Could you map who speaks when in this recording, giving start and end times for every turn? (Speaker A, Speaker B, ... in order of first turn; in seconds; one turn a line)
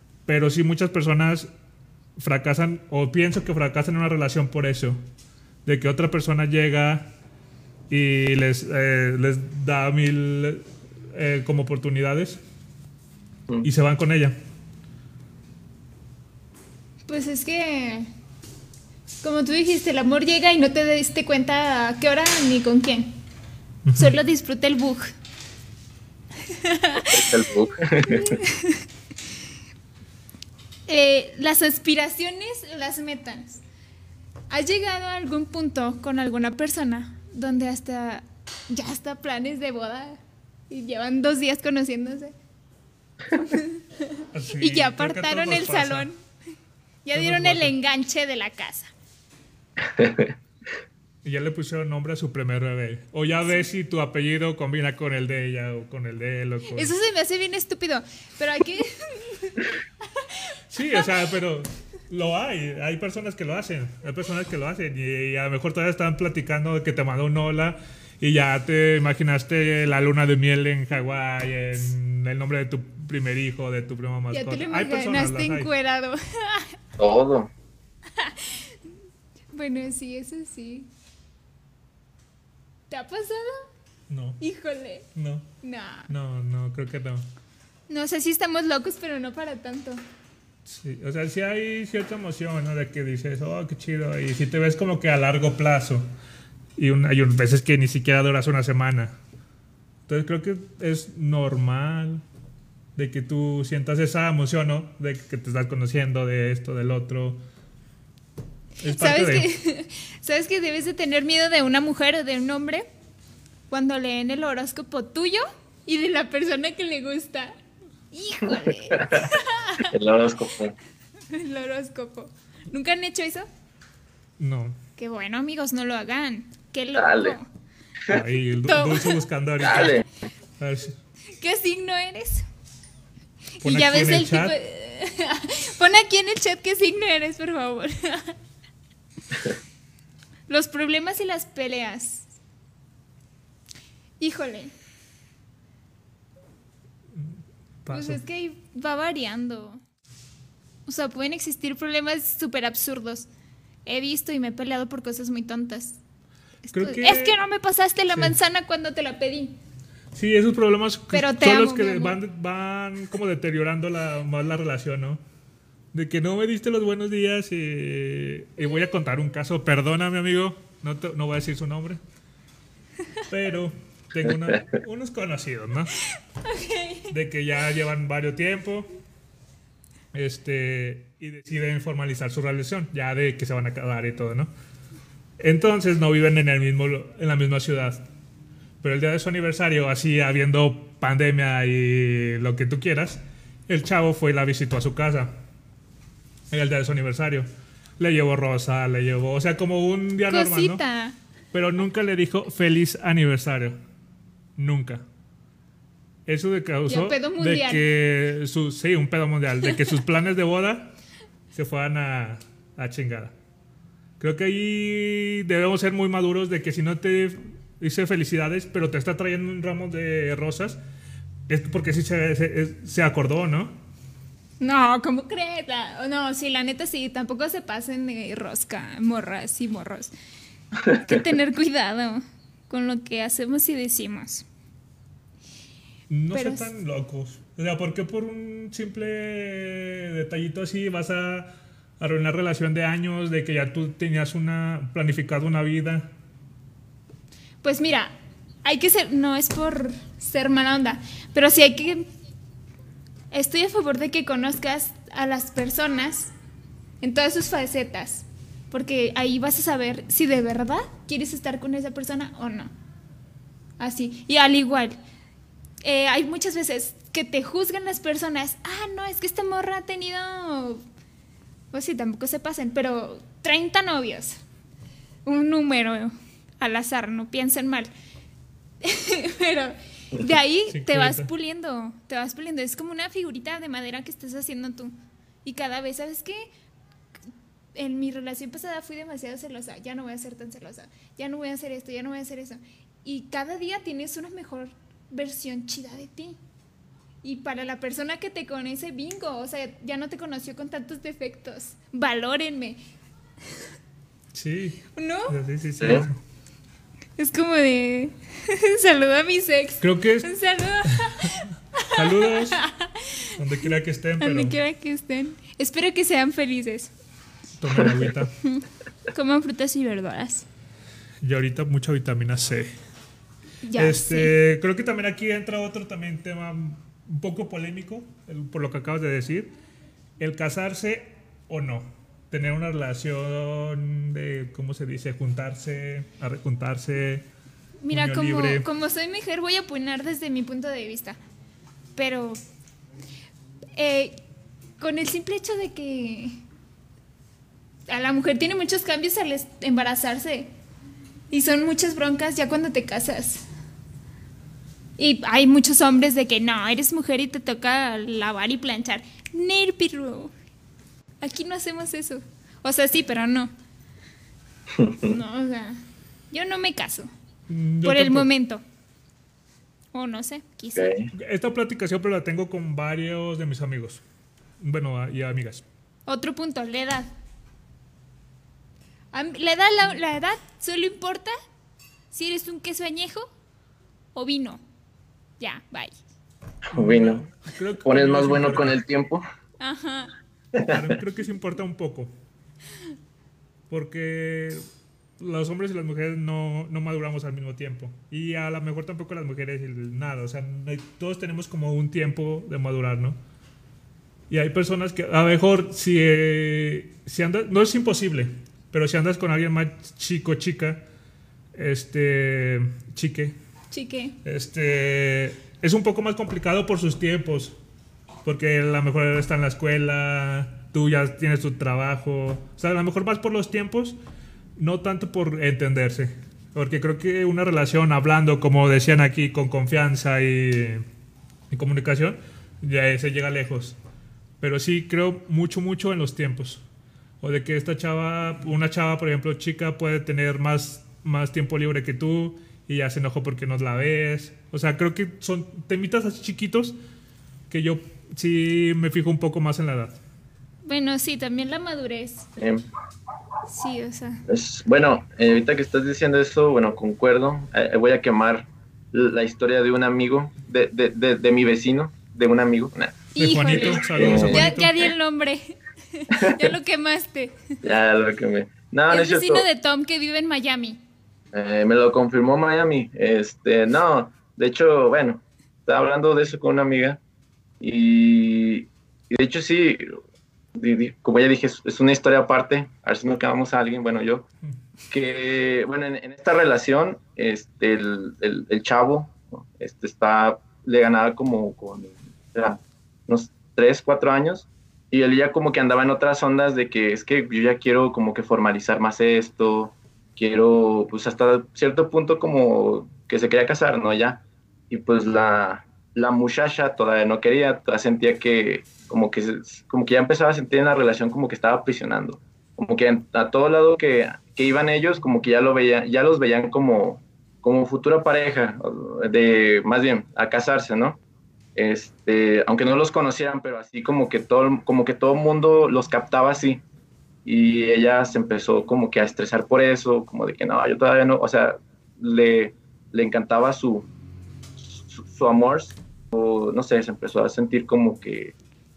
Speaker A: 0.3-1.5
Speaker A: 2.2-5.0
Speaker A: 5.7-7.1
Speaker A: 7.9-12.4
Speaker A: 13.6-14.3
Speaker B: 17.1-18.1
Speaker B: 19.2-23.1
Speaker A: 23.8-24.1
Speaker B: 23.9-25.1
Speaker B: 26.5-27.2
Speaker C: 26.9-28.4
Speaker B: 28.1-28.8
Speaker B: 30.9-33.6
Speaker B: 34.5-42.3
Speaker B: 43.3-46.2
Speaker A: 44.3-46.1
Speaker B: 47.0-48.9
Speaker A: 47.1-47.7
Speaker C: 49.8-50.3
Speaker A: 51.2-56.9
Speaker B: 56.7-59.7
Speaker A: 60.7-75.7
Speaker B: 74.3-76.7
Speaker C: 77.0-77.5
Speaker B: 78.2-78.7
Speaker B: 79.5-80.9
Speaker B: 82.9-83.6
Speaker A: 84.1-84.4
Speaker B: 84.4-85.1
Speaker A: 85.1-85.5
Speaker B: 85.6-86.1
Speaker A: 86.1-87.3
Speaker B: 87.9-90.0
Speaker A: 90.7-96.1
Speaker A: 96.8-99.1
Speaker A: 100.1-102.2
Speaker A: 103.0-107.4
Speaker A: 108.8-109.5
Speaker B: 108.9-112.8
Speaker B: 113.7-117.5
Speaker B: 118.1-119.9
Speaker C: 118.9-119.3
Speaker C: 119.8-120.8
Speaker B: 121.3-123.5
Speaker A: 124.4-124.8
Speaker B: 125.0-127.5
Speaker C: 127.0-127.4
Speaker A: 128.1-130.1
Speaker B: 128.7-129.2
Speaker C: 129.6-130.1
Speaker A: 130.6-130.9
Speaker B: 131.4-132.4
Speaker B: 133.6-138.4
Speaker A: 133.6-134.6
Speaker B: 140.5-142.3
Speaker B: 144.2-144.7
Speaker A: 147.1-148.2
Speaker B: 147.9-149.8
Speaker B: 150.9-153.3
Speaker B: 153.9-156.0
Speaker B: 156.7-159.6
Speaker A: 156.7-157.4
Speaker A: 160.1-165.2
Speaker B: 161.1-162.2
Speaker A: 165.9-172.0
Speaker A: 173.3-175.9
Speaker B: 176.4-177.1
Speaker A: 177.1-178.9
Speaker A: 180.1-184.5
Speaker A: 185.4-188.1
Speaker A: 188.8-195.3
Speaker A: 196.5-197.5
Speaker A: 198.0-200.8
Speaker B: 200.3-201.2
Speaker A: 201.5-203.8
Speaker A: 204.6-205.0
Speaker A: 206.3-210.9
Speaker B: 206.9-207.8
Speaker A: 211.5-213.3
Speaker A: 214.2-220.8
Speaker A: 221.5-223.8
Speaker B: 224.6-230.1
Speaker B: 230.9-234.4
Speaker A: 236.1-246.1
Speaker B: 236.3-236.7
Speaker B: 247.6-248.1
Speaker B: 248.6-252.1
Speaker B: 253.3-256.3
Speaker B: 257.0-262.7
Speaker B: 263.8-265.0
Speaker B: 265.8-270.8
Speaker B: 271.7-274.4
Speaker B: 275.3-277.9
Speaker B: 278.8-286.5
Speaker A: 280.7-281.3
Speaker B: 287.7-296.4
Speaker B: 297.2-302.8
Speaker A: 304.3-306.2
Speaker B: 304.9-305.3
Speaker C: 305.8-306.1
Speaker B: 307.2-313.3
Speaker A: 309.8-310.3
Speaker A: 310.9-312.6
Speaker A: 313.4-314.6
Speaker B: 314.2-316.9
Speaker A: 317.6-318.3
Speaker B: 318.4-320.5
Speaker A: 321.2-322.7
Speaker B: 323.7-324.3
Speaker A: 323.8-329.5
Speaker A: 330.2-337.3
Speaker B: 337.8-341.2
Speaker A: 337.9-338.6
Speaker B: 341.9-342.4
Speaker B: 343.8-344.2
Speaker B: 344.8-346.4
Speaker B: 347.9-350.5
Speaker B: 351.3-353.4
Speaker B: 355.0-360.3
Speaker B: 361.2-363.5
Speaker C: 364.8-365.1
Speaker B: 365.0-367.1
Speaker A: 367.5-368.3
Speaker B: 367.8-368.6
Speaker B: 369.9-370.9
Speaker C: 370.8-371.1
Speaker A: 371.1-374.0
Speaker A: 374.6-375.6
Speaker B: 376.1-377.1
Speaker B: 379.1-381.3
Speaker B: 382.1-383.3
Speaker B: 384.1-384.6
Speaker B: 385.4-385.9
Speaker C: 386.7-387.2
Speaker A: 386.7-388.8
Speaker C: 387.8-389.2
Speaker B: 389.6-390.1
Speaker C: 390.5-390.8
Speaker A: 390.7-392.1
Speaker A: 393.7-394.6
Speaker A: 395.2-403.2
Speaker A: 404.3-410.8
Speaker A: 411.6-413.4
Speaker B: 413.7-414.2
Speaker A: 414.2-417.6
Speaker A: 418.2-424.0
Speaker A: 424.6-430.8
Speaker A: 431.5-433.8
Speaker A: 434.4-436.6
Speaker A: 437.2-446.8
Speaker A: 447.5-449.9
Speaker B: 450.6-452.3
Speaker C: 452.4-452.7
Speaker B: 453.5-454.2
Speaker C: 454.3-464.5
Speaker B: 463.1-467.5
Speaker A: 463.2-464.8
Speaker C: 466.1-466.5
Speaker C: 467.6-469.5
Speaker B: 468.9-470.8
Speaker C: 471.3-477.0
Speaker C: 477.6-480.0
Speaker C: 480.6-484.3
Speaker C: 484.9-521.0
Speaker C: 521.5-526.6
Speaker C: 527.2-533.9
Speaker C: 534.6-538.3